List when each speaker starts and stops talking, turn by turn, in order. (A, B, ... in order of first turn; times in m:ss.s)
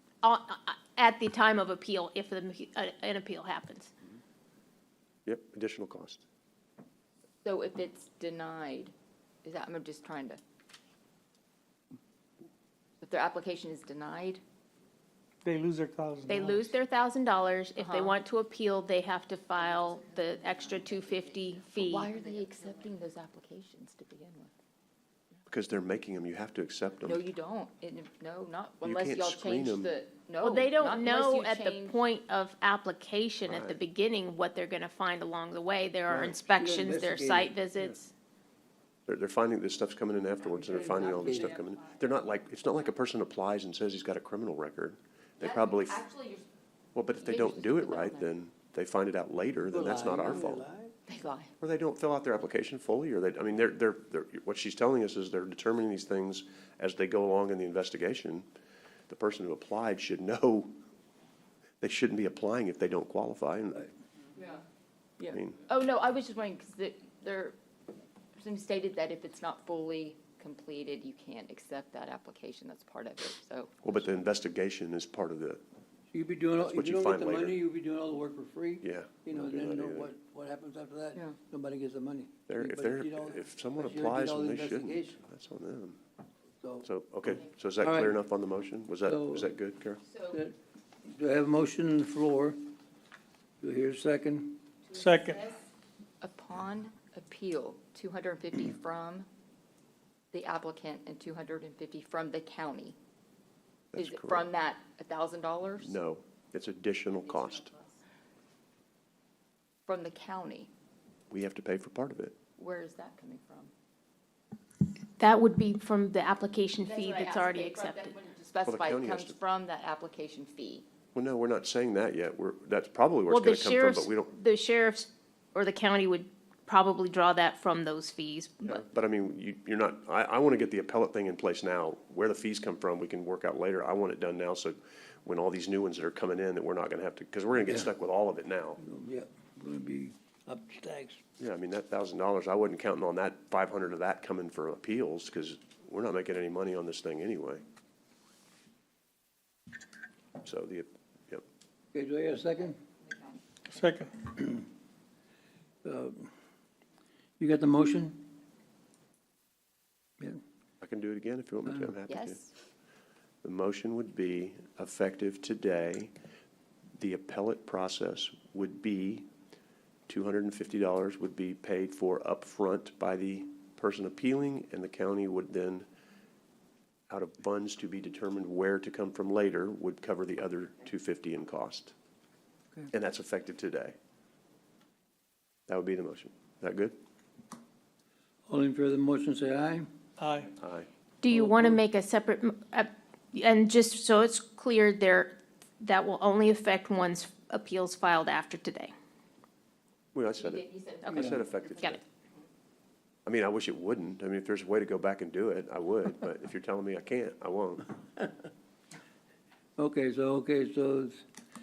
0:00.2-0:03.9 A
0:05.2-0:06.2 B
0:07.4-0:08.9 C
0:09.4-0:10.4 C
0:13.0-0:14.4 C
0:15.4-0:16.6 D
0:16.3-0:22.1 A
0:17.8-0:18.2 C
0:21.7-0:24.5 C
0:25.5-0:27.2 B
0:27.0-0:32.0 C
0:28.8-0:30.0 B
0:30.4-0:38.1 A
0:33.5-0:33.8 B
0:36.1-0:36.4 B
0:36.6-0:37.6 E
0:39.1-0:46.0 B
0:40.5-0:41.6 E
0:40.7-0:41.8 C
0:45.4-0:46.4 C
0:46.9-0:50.6 B
0:47.2-0:48.3 C
0:49.7-0:50.9 E
0:51.1-0:51.5 C
0:51.6-0:58.5 B
0:59.1-1:00.7 B
1:01.8-1:03.9 B
1:04.4-1:04.6 C
1:05.2-1:07.6 C
1:05.3-1:05.6 B
1:08.4-1:13.8 C
1:13.8-1:15.6 B
1:16.1-1:25.2 E
1:16.6-1:17.6 B
1:18.8-1:20.1 B
1:22.5-1:26.0 B
1:26.6-1:26.9 E
1:26.8-1:30.0 B
1:27.8-1:28.2 E
1:29.0-1:29.5 E
1:30.1-1:30.4 C
1:30.3-1:32.7 E
1:33.6-1:34.6 E
1:34.9-1:35.5 D
1:35.0-1:35.6 C
1:36.2-1:39.3 C
1:40.3-1:43.0 C
1:43.9-1:44.4 B
1:44.0-1:46.0 C
1:45.8-1:47.7 B
1:47.6-1:48.0 C
1:49.9-1:50.7 C
1:51.3-1:52.4 B
1:52.6-1:53.7 C
1:55.2-1:58.2 A
1:56.8-2:00.8 C
1:58.7-1:59.4 B
2:01.1-2:04.3 B
2:03.3-2:08.8 A
2:08.6-2:18.8 B
2:17.6-2:17.9 E
2:18.8-2:21.2 E
2:21.4-2:27.6 B
2:30.4-2:31.4 B
2:31.9-2:32.8 E
2:33.7-2:34.2 D
2:34.3-2:34.6 E
2:35.8-2:36.3 E
2:37.4-2:38.3 E
2:40.8-2:42.4 B
2:41.7-2:41.9 E
2:42.1-2:42.5 C
2:43.4-2:46.1 B
2:47.0-2:49.3 B
2:50.1-2:55.8 B
2:57.1-3:01.9 B
3:02.9-3:03.9 B
3:05.7-3:07.0 B
3:08.5-3:09.9 E
3:10.2-3:10.5 D
3:10.6-3:10.9 B
3:11.2-3:18.9 A
3:11.3-3:11.8 E
3:20.1-3:22.0 B
3:20.4-3:22.0 C
3:21.0-3:22.0 A
3:23.2-3:27.9 B
3:29.8-3:31.2 E